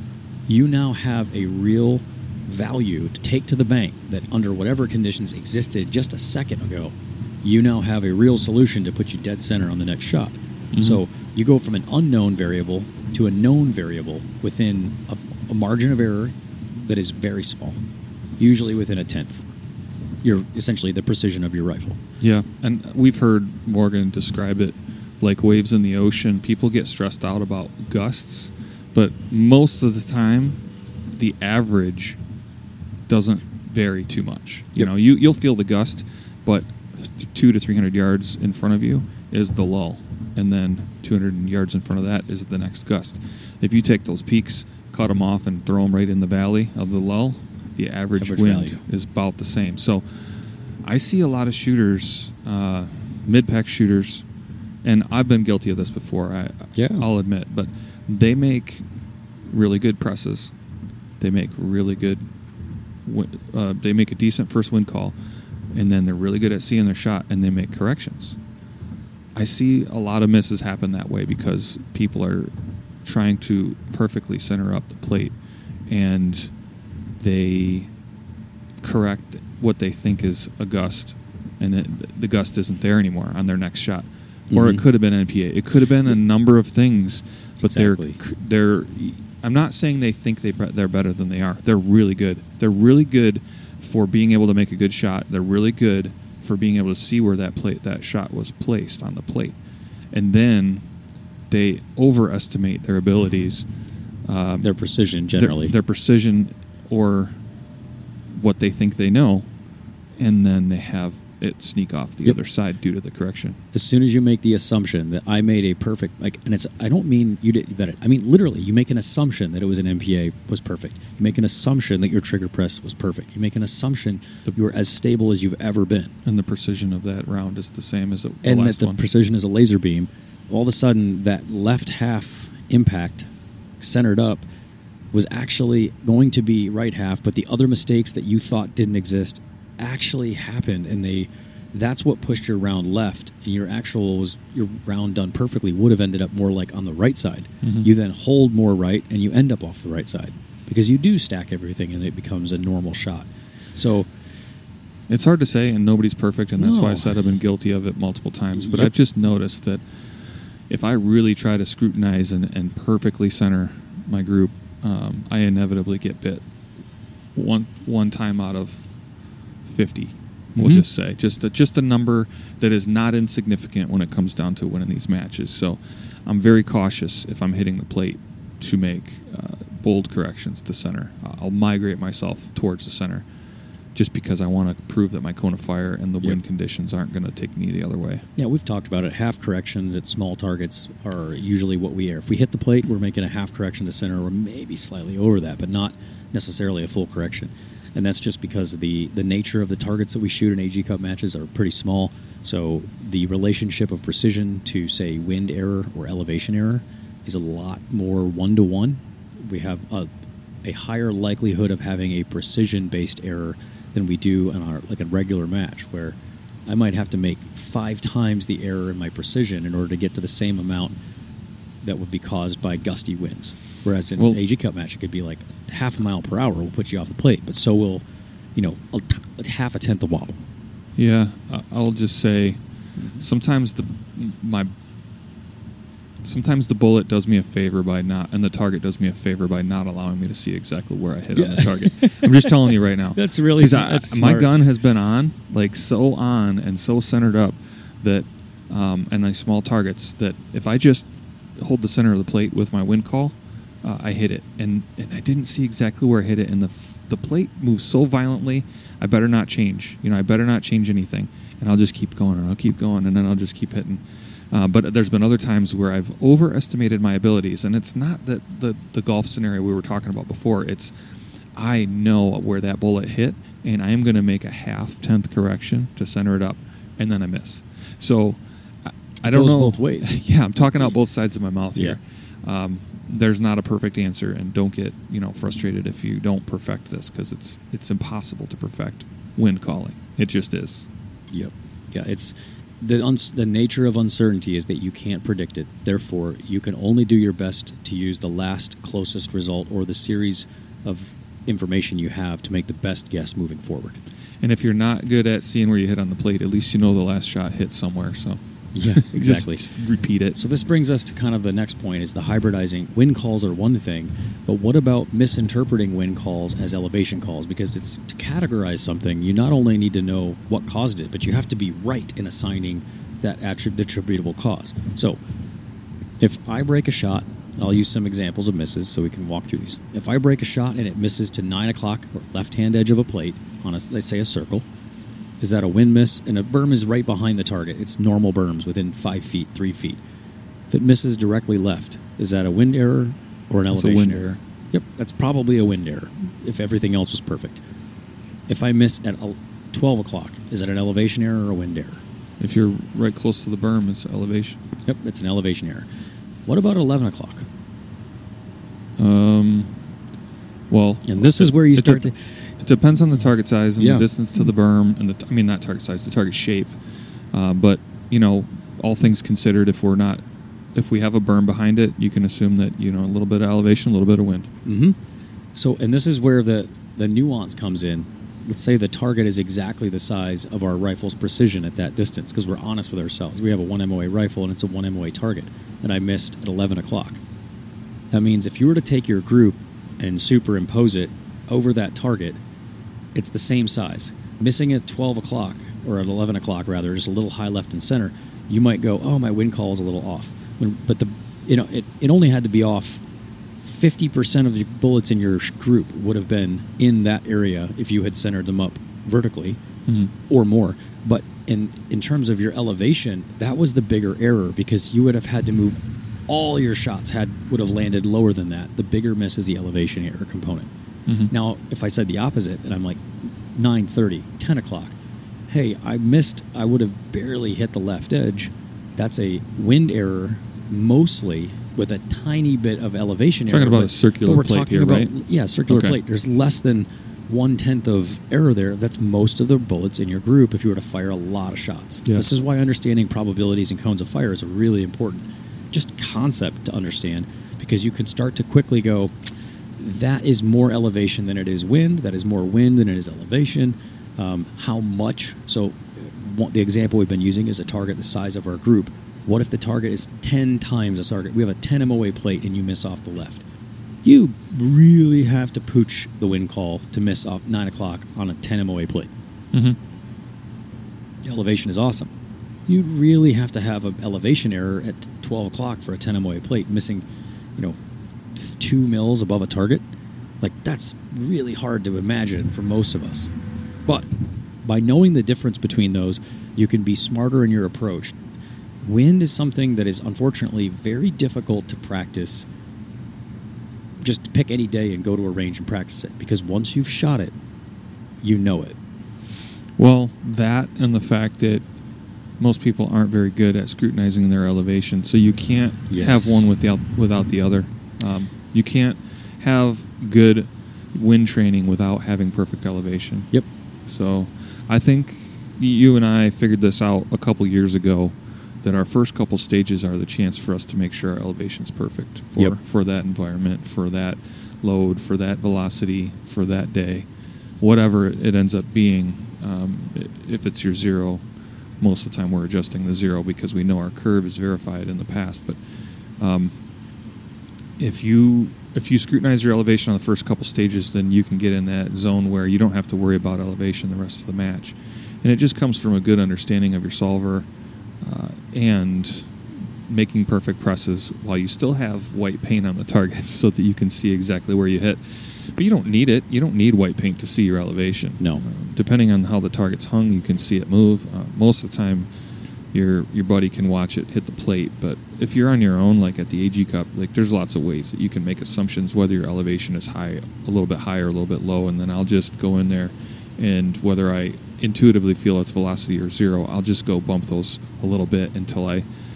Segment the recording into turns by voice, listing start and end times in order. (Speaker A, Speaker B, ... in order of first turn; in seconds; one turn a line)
Speaker A: 0.5-17.8
Speaker B: 10.7-11.0
Speaker A: 18.4-19.4
Speaker A: 20.2-22.0
Speaker B: 22.2-30.6
Speaker B: 31.1-32.2
Speaker B: 33.1-54.2
Speaker A: 48.1-48.8
Speaker B: 54.8-58.8
Speaker A: 56.7-57.1
Speaker B: 59.5-60.5
Speaker B: 61.2-62.3
Speaker B: 63.0-65.1
Speaker B: 65.7-68.4
Speaker B: 69.3-72.5
Speaker B: 73.0-75.3
Speaker B: 75.9-76.5
Speaker B: 77.2-77.9
Speaker B: 78.8-99.6
Speaker A: 84.5-84.8
Speaker A: 87.6-88.2
Speaker B: 100.1-100.8
Speaker B: 101.5-103.7
Speaker B: 104.2-104.7
Speaker A: 104.6-105.8
Speaker B: 105.3-107.4
Speaker B: 108.3-109.5
Speaker B: 110.2-113.6
Speaker A: 113.7-126.2
Speaker B: 126.2-129.0
Speaker A: 128.4-133.3
Speaker A: 133.8-134.4
Speaker A: 135.1-154.1
Speaker B: 147.6-147.9
Speaker B: 155.1-159.8
Speaker A: 156.6-157.2
Speaker A: 158.5-158.9
Speaker B: 160.7-166.4
Speaker B: 167.3-168.9
Speaker B: 169.6-183.2
Speaker A: 170.6-170.8
Speaker B: 183.9-188.2
Speaker A: 188.4-210.1
Speaker A: 210.6-221.0
Speaker A: 221.8-228.0
Speaker A: 228.6-230.4
Speaker B: 230.9-232.6
Speaker A: 233.0-233.2
Speaker B: 233.2-234.7
Speaker B: 236.2-270.9
Speaker A: 241.3-244.5
Speaker B: 271.5-290.9
Speaker A: 279.2-280.1
Speaker A: 291.3-304.0
Speaker B: 304.4-310.4
Speaker A: 308.7-309.7
Speaker A: 310.3-325.2
Speaker A: 326.2-334.6
Speaker A: 335.4-340.0
Speaker A: 340.7-347.6
Speaker B: 343.7-344.4
Speaker A: 348.5-352.0
Speaker B: 352.4-354.6
Speaker A: 354.8-355.9
Speaker A: 356.4-357.5
Speaker B: 359.0-359.8
Speaker B: 360.7-366.8
Speaker A: 361.0-362.5
Speaker A: 363.8-364.1
Speaker B: 367.3-370.2
Speaker B: 370.7-374.5
Speaker A: 374.6-375.0
Speaker A: 375.5-387.2
Speaker A: 388.1-392.4
Speaker A: 393.1-403.0
Speaker A: 403.6-409.6
Speaker A: 410.3-420.7
Speaker B: 421.1-421.3
Speaker A: 421.3-424.9
Speaker A: 425.5-449.1
Speaker B: 433.5-435.1
Speaker B: 435.7-436.0
Speaker A: 449.8-463.4
Speaker A: 464.0-469.1
Speaker B: 469.5-469.8
Speaker A: 471.2-472.1
Speaker A: 472.7-477.0
Speaker A: 478.3-479.9
Speaker A: 480.4-483.3
Speaker A: 484.6-488.1
Speaker A: 488.8-492.5
Speaker A: 494.0-497.3
Speaker A: 498.2-498.8
Speaker B: 499.8-501.6
Speaker B: 502.4-513.3
Speaker A: 505.9-506.4
Speaker B: 513.9-527.1
Speaker B: 527.6-531.2
Speaker B: 531.8-535.6
Speaker B: 536.2-536.5
Speaker B: 537.8-547.5
Speaker B: 548.0-562.1
Speaker B: 562.7-578.9